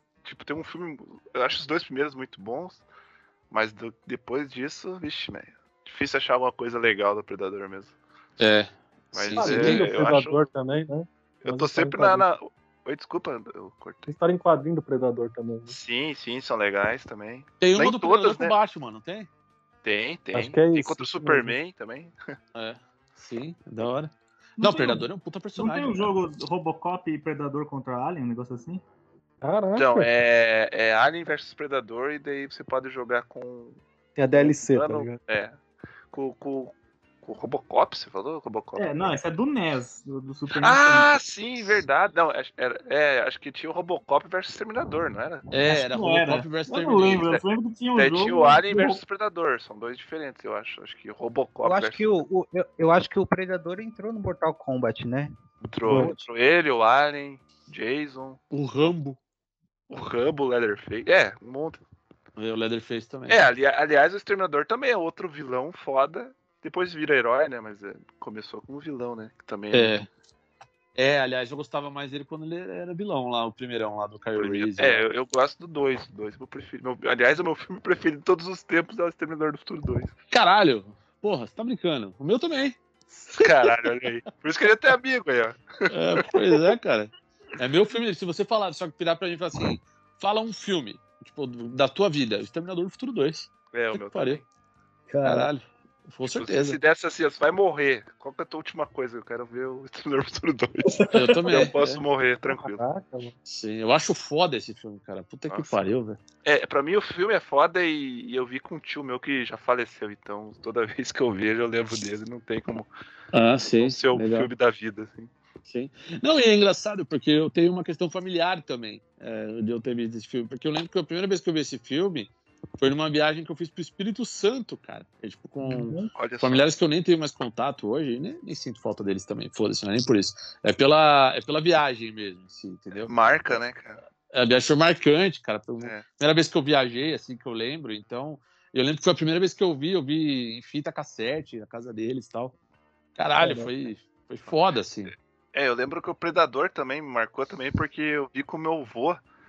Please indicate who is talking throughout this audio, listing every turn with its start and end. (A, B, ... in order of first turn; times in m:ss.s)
0:00.2-0:02.8 A
0:03.5-0:08.0 A
0:08.4-0:09.9 B
0:09.1-0:10.4 A
0:09.4-0:12.2 C
0:11.4-0:14.1 A
0:14.1-0:15.7 C
0:15.7-0:18.5 A
0:17.6-0:19.3 B
0:19.8-0:22.1 A
0:20.3-0:21.6 C
0:22.5-0:26.1 B
0:24.6-0:28.8 D
0:29.4-0:30.1 C
0:29.8-0:33.8 A
0:34.2-0:35.2 C
0:34.3-0:35.6 A
0:36.1-0:39.2 A
0:38.7-0:41.2 D
0:40.5-0:45.5 A
0:45.5-0:47.4 B
0:45.6-0:49.0 D
0:47.9-0:52.1 A
0:51.6-0:55.3 E
0:55.6-0:58.4 A
0:55.8-0:56.2 C
0:58.5-0:59.2 B
0:59.9-1:01.8 A
1:02.4-1:03.4 B
1:03.3-1:10.0 A
1:09.7-1:10.1 B
1:10.9-1:15.0 B
1:14.3-1:20.1 A
1:20.3-1:23.8 B
1:23.3-1:26.6 A
1:25.9-1:34.4 B
1:33.7-1:34.4 A
1:35.1-1:35.5 D
1:35.2-1:36.8 B
1:36.3-1:42.8 A
1:40.9-1:41.6 D
1:41.1-1:42.0 B
1:42.5-1:43.3 C
1:43.4-1:46.2 B
1:45.5-1:45.9 A
1:46.4-1:52.9 A
1:53.3-1:54.5 B
1:53.8-1:55.3 A
1:55.6-2:13.1 B
2:05.6-2:06.1 D
2:06.1-2:06.6 A
2:12.9-2:14.0 A
2:14.3-2:22.5 B
2:23.1-2:25.1 B
2:23.4-2:23.7 C
2:25.5-2:29.2 A